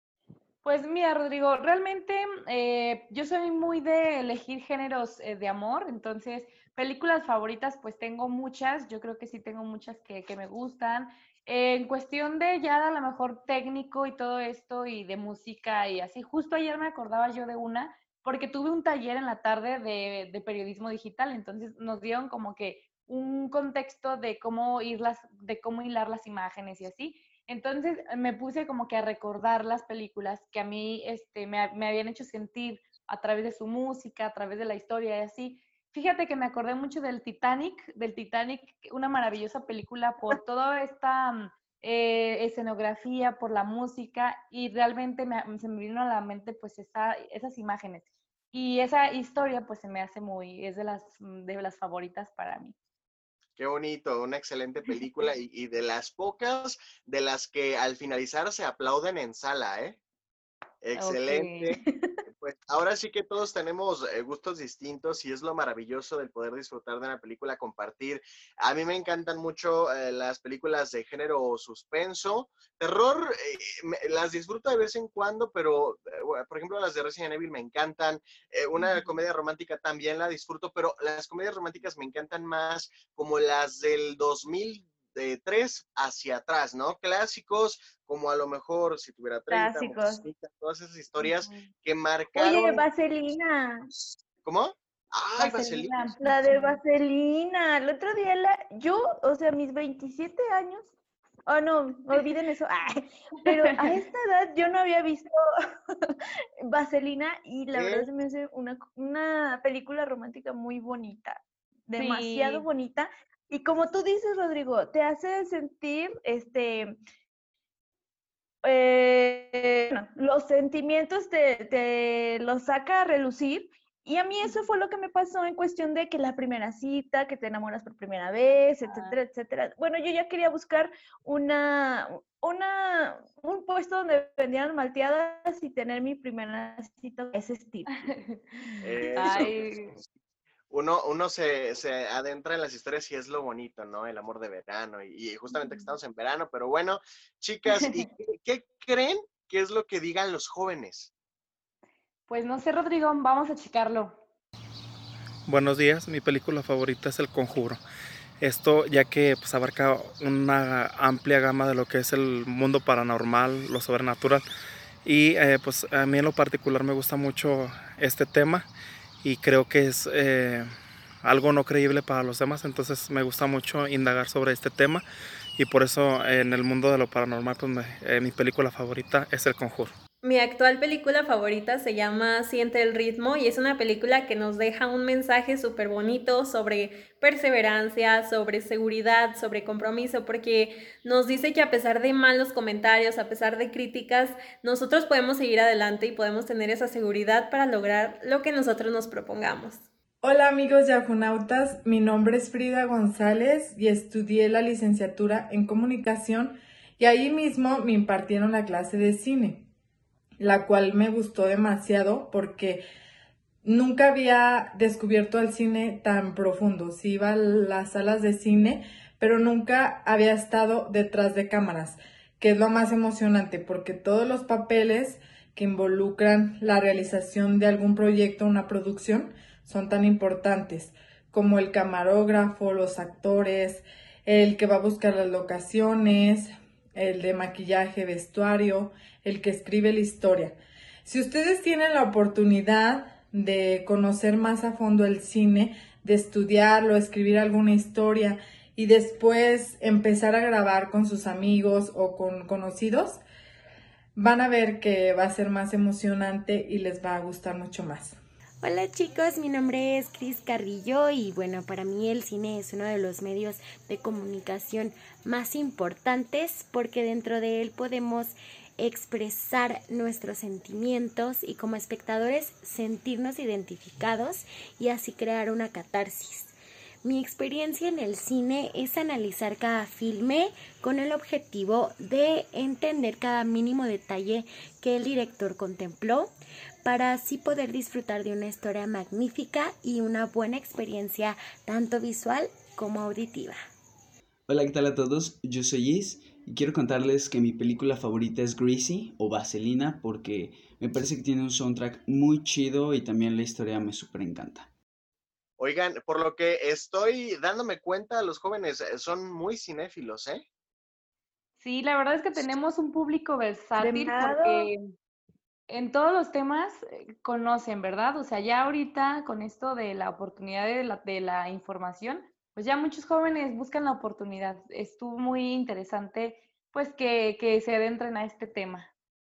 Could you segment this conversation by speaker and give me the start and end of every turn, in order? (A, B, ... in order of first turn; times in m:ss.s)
0:00.6-0:52.8 A
0:53.6-1:00.0 B
1:00.8-1:01.8 B
1:01.0-1:01.7 A
1:01.8-1:02.2 C
1:02.4-1:32.8 B
1:29.5-1:30.2 C
1:31.2-1:31.6 A
1:32.4-1:33.9 C
1:34.4-1:36.1 B
1:35.4-1:36.8 A
1:36.2-1:40.9 C
1:41.5-1:57.0 C
1:43.6-1:44.0 A
1:47.7-1:48.1 B
1:52.0-1:52.6 A
1:58.6-2:18.1 C
2:08.9-2:09.2 A
2:18.0-2:20.0 A
2:18.8-2:19.6 B
2:19.0-2:19.5 C
2:20.7-2:31.1 B
2:27.7-2:28.0 A
2:32.3-2:34.2 A
2:35.5-2:37.8 D
2:38.4-2:44.4 D
2:45.0-2:48.7 D
2:49.2-2:50.7 D
2:51.2-2:55.0 D
2:55.6-2:59.9 D
3:00.2-3:19.8 E
3:20.2-3:29.7 F
3:30.4-3:32.8 F
3:33.6-4:13.2 F
4:14.2-4:18.2 F
4:18.6-4:46.3 G
4:46.8-4:53.6 G
4:54.5-5:04.7 H
5:05.6-5:10.4 B
5:11.6-5:14.8 A
5:13.8-5:14.7 C
5:15.7-5:28.9 A